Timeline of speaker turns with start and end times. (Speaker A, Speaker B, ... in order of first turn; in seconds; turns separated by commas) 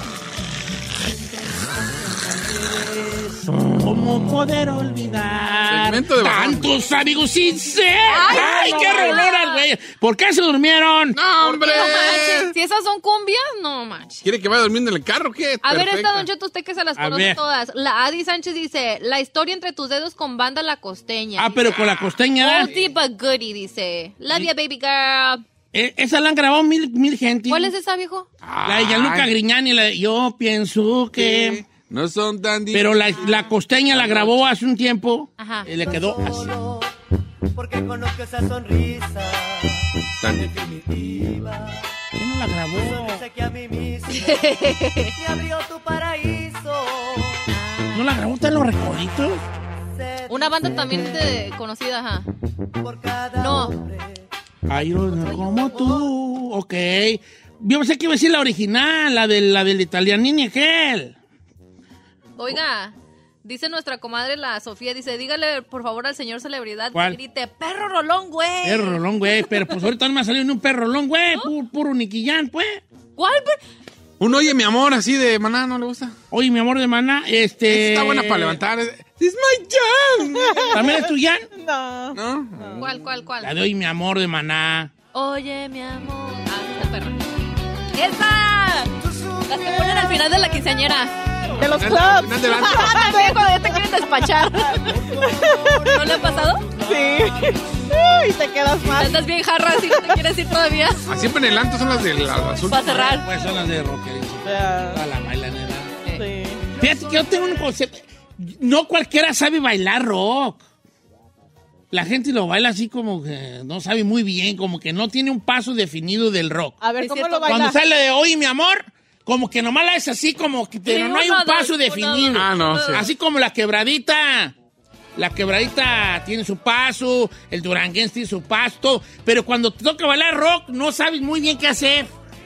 Speaker A: 1.1-11.2, Speaker B: 5.7-6.7, Speaker C: 8.1-9.7, Speaker B: 11.1-12.6, Speaker C: 11.4-14.2, Speaker B: 14.2-16.3, Speaker C: 15.6-21.7, Speaker A: 17.0-17.4, Speaker A: 21.4-22.7, Speaker B: 21.7-22.9, Speaker C: 22.4-25.4, Speaker A: 25.7-27.7, Speaker C: 27.5-28.3, Speaker B: 28.4-29.3, Speaker A: 28.6-31.6, Speaker B: 31.2-34.4, Speaker A: 32.7-36.5, Speaker C: 35.4-35.7, Speaker D: 35.7-36.9, Speaker D: 37.5-41.9, Speaker B: 40.2-40.9, Speaker A: 42.2-43.2, Speaker D: 42.7-47.5, Speaker C: 44.1-45.1, Speaker C: 47.5-48.0, Speaker A: 47.9-49.4, Speaker D: 50.0-51.4, Speaker C: 50.3-52.3, Speaker D: 52.8-54.3, Speaker C: 53.4-53.8, Speaker A: 54.7-61.2, Speaker D: 55.2-56.1, Speaker C: 62.4-69.8, Speaker A: 68.6-72.8, Speaker C: 73.2-73.6, Speaker B: 74.2-76.1, Speaker A: 76.3-78.6, Speaker B: 77.7-80.8, Speaker E: 80.3-82.9, Speaker A: 80.7-81.5, Speaker B: 82.1-82.9, Speaker C: 82.8-83.5, Speaker A: 83.4-84.9, Speaker C: 85.1-87.2, Speaker C: 88.0-88.9, Speaker D: 89.0-90.8, Speaker C: 89.5-91.1, Speaker E: 91.5-96.2, Speaker B: 91.7-93.0, Speaker C: 92.5-95.0, Speaker D: 94.7-97.5, Speaker C: 95.9-96.7, Speaker E: 96.8-100.3, Speaker C: 98.8-101.2, Speaker B: 101.1-103.0, Speaker C: 102.7-103.3, Speaker A: 102.8-106.0, Speaker E: 104.5-105.0, Speaker E: 106.2-106.7, Speaker A: 106.8-110.6, Speaker A: 111.9-116.8, Speaker E: 116.8-117.8, Speaker C: 117.0-117.5, Speaker A: 117.4-124.5, Speaker C: 120.9-123.1, Speaker B: 122.3-123.0, Speaker A: 125.2-132.1